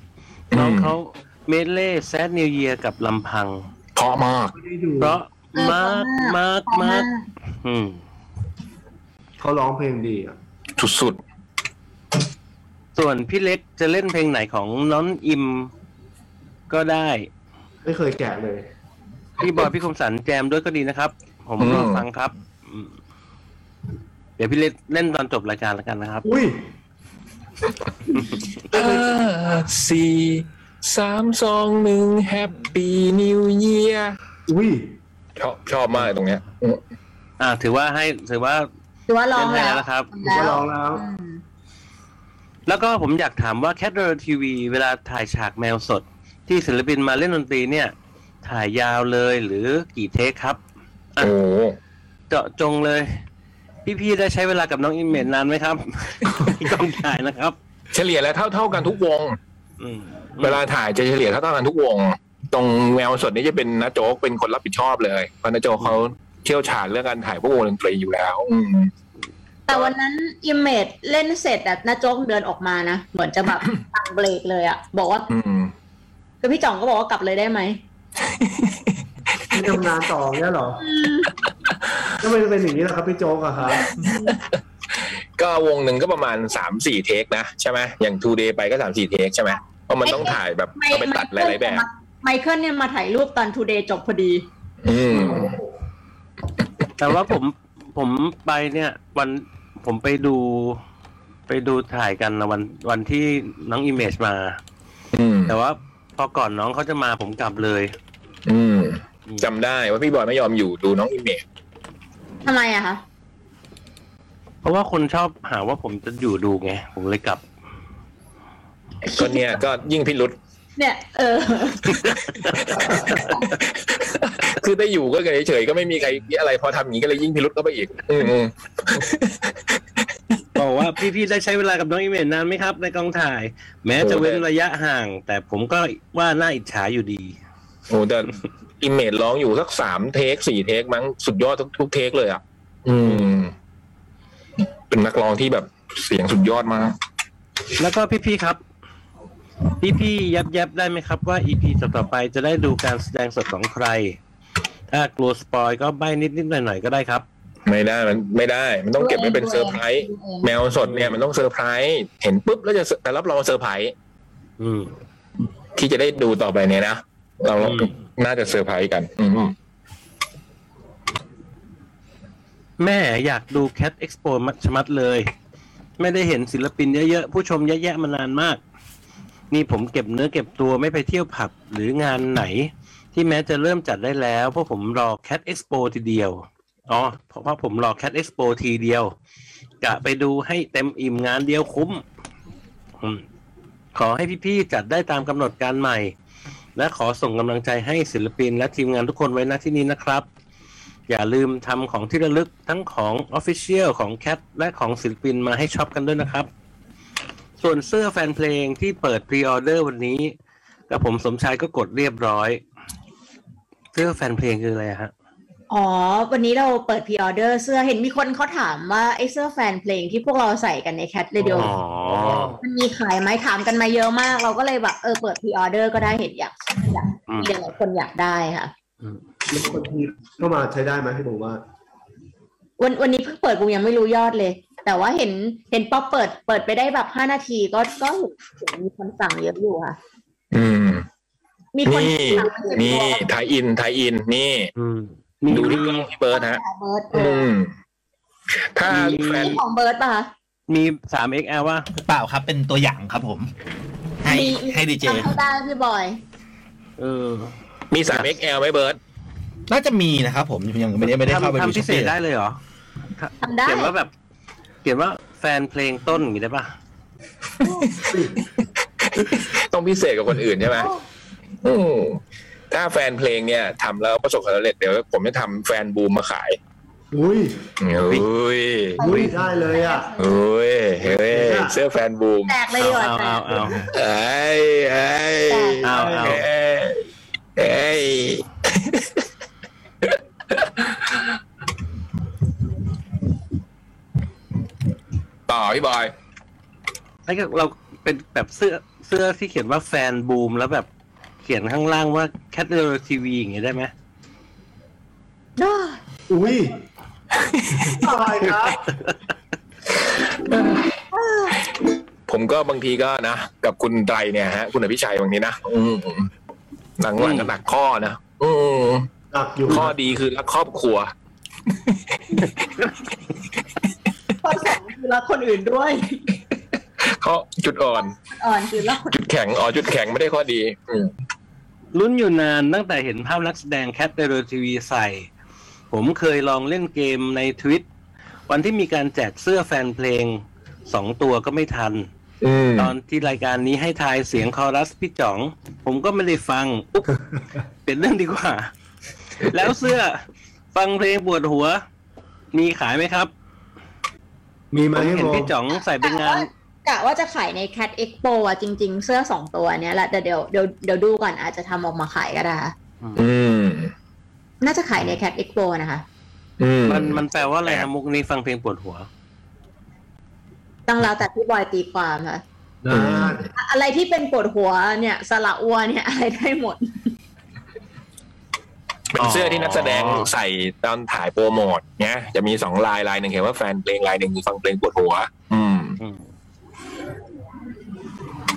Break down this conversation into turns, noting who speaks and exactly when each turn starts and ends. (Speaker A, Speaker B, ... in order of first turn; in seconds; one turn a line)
Speaker A: 0.5-3.7
Speaker B: 0.5-0.9
Speaker B: 4.0-4.5
Speaker C: 4.5-5.2
Speaker A: 5.0-7.1
Speaker D: 5.5-7.3
Speaker A: 7.6-8.0
Speaker C: 9.4-10.3
Speaker B: 10.8-11.2
Speaker A: 12.9-15.7
Speaker A: 16.7-17.3
Speaker C: 17.8-18.6
Speaker A: 19.4-22.9
Speaker B: 21.6-22.0
Speaker A: 24.4-26.3
Speaker C: 26.2-26.6
Speaker A: 28.2-28.5
Speaker B: 28.7-34.2
Speaker C: 28.7-29.0
Speaker C: 34.5-35.0
Speaker B: 35.4-36.8
Speaker A: 37.4-38.7
Speaker D: 39.1-41.4
Speaker A: 39.3-40.1
Speaker C: 40.2-41.0
Speaker A: 42.7-50.6
Speaker B: 51.2-51.8
Speaker A: 52.3-53.2
Speaker A: 53.8-57.5
Speaker B: 57.9-59.4
Speaker A: 59.8-60.6
Speaker B: 60.4-68.9
Speaker D: 69.7-75.3
Speaker B: 75.3-75.7
Speaker D: 76.4-77.8
Speaker B: 78.4-78.8
Speaker C: 79.5-80.8
Speaker D: 80.8-81.3
Speaker C: 82.2-83.9
Speaker B: 84.0-84.4
Speaker D: 84.0-84.4
Speaker B: 85.0-91.8
Speaker D: 90.0-94.5
Speaker B: 94.8-95.6
Speaker A: 97.0-100.8
Speaker A: 101.5-104.6
Speaker B: 105.1-105.5
Speaker A: 105.5-107.9
Speaker B: 108.5-111.4
Speaker D: 112.4-113.0
Speaker A: 114.6-117.4
Speaker D: 119.0-119.6
Speaker B: 119.2-120.3
Speaker D: 120.8-122.0
Speaker A: 121.9-123.4
Speaker B: 123.8-129.5
Speaker A: 130.5-137.4
Speaker B: 134.0-134.4
Speaker B: 137.9-143.5
Speaker B: 144.9-147.0
Speaker A: 147.8-148.6
Speaker A: 149.8-154.2
Speaker A: 154.9-157.2
Speaker B: 157.7-163.9
Speaker D: 159.0-160.5
Speaker A: 160.8-161.2
Speaker A: 164.6-164.9
Speaker B: 165.8-169.5
Speaker A: 167.6-167.9
Speaker A: 172.8-175.3
Speaker A: 176.0-178.6
Speaker A: 179.5-189.1
Speaker A: 189.8-192.0
Speaker A: 193.0-193.2
Speaker A: 193.9-196.1
Speaker A: 196.8-200.2
Speaker A: 201.1-206.5
Speaker A: 207.6-210.3
Speaker A: 210.9-212.6
Speaker A: 213.9-215.1
Speaker D: 215.7-221.7
Speaker C: 221.4-222.6
Speaker A: 221.5-222.6
Speaker D: 222.6-228.7
Speaker C: 229.5-231.6
Speaker D: 232.8-240.0
Speaker B: 240.5-241.1
Speaker D: 241.7-243.2
Speaker B: 241.8-244.7
Speaker A: 244.8-246.1
Speaker B: 245.5-246.6
Speaker D: 246.3-247.5
Speaker B: 247.1-247.7
Speaker B: 248.6-249.6
Speaker A: 248.8-249.6
Speaker D: 249.2-250.3
Speaker A: 250.7-251.9
Speaker E: 252.0-253.5
Speaker E: 254.2-255.3
Speaker D: 254.3-256.2
Speaker A: 257.0-257.5
Speaker B: 257.9-259.0
Speaker E: 259.7-262.1
Speaker A: 261.1-262.6
Speaker A: 263.2-264.1
Speaker D: 263.4-263.9
Speaker A: 264.8-266.7
Speaker B: 267.6-268.1
Speaker C: 268.1-268.3
Speaker B: 269.1-270.9
Speaker D: 270.8-271.0
Speaker B: 271.6-272.2
Speaker B: 272.7-276.6
Speaker C: 277.1-277.6
Speaker B: 277.8-279.0
Speaker D: 279.0-280.4
Speaker C: 279.0-280.1
Speaker A: 279.0-279.3
Speaker B: 280.2-282.6
Speaker C: 281.0-281.8
Speaker D: 282.5-283.8
Speaker A: 282.8-283.9
Speaker B: 283.9-287.0
Speaker D: 285.5-285.8
Speaker A: 285.8-286.4
Speaker C: 285.9-286.4
Speaker B: 287.6-289.2
Speaker B: 290.0-291.2
Speaker B: 295.5-296.1
Speaker A: 297.3-300.9
Speaker A: 301.4-303.9
Speaker D: 305.6-306.0
Speaker C: 306.3-306.8
Speaker B: 307.4-308.0
Speaker C: 307.9-308.8
Speaker A: 308.9-309.1
Speaker B: 310.4-310.9
Speaker D: 311.1-311.6
Speaker B: 312.3-316.3
Speaker B: 317.0-319.1
Speaker A: 317.2-317.5
Speaker C: 319.3-319.9
Speaker B: 319.7-321.1
Speaker B: 321.9-322.3
Speaker A: 322.4-322.9
Speaker D: 324.4-326.2
Speaker B: 327.0-328.1
Speaker D: 328.2-329.2
Speaker B: 329.1-331.1
Speaker A: 331.9-335.3
Speaker A: 335.9-337.8
Speaker A: 338.5-342.1
Speaker B: 342.4-342.9
Speaker A: 342.8-347.1
Speaker A: 347.9-348.7
Speaker A: 349.4-350.2
Speaker A: 350.7-351.8
Speaker A: 352.5-353.3
Speaker C: 354.7-355.5
Speaker A: 354.9-356.5
Speaker D: 356.0-362.7
Speaker B: 363.1-363.9
Speaker D: 364.6-366.0
Speaker B: 366.6-367.9
Speaker A: 366.9-369.1
Speaker D: 370.9-372.4
Speaker C: 372.8-373.5
Speaker B: 372.9-373.5
Speaker D: 373.6-377.1
Speaker B: 379.1-386.0
Speaker A: 379.2-380.3
Speaker A: 386.0-386.2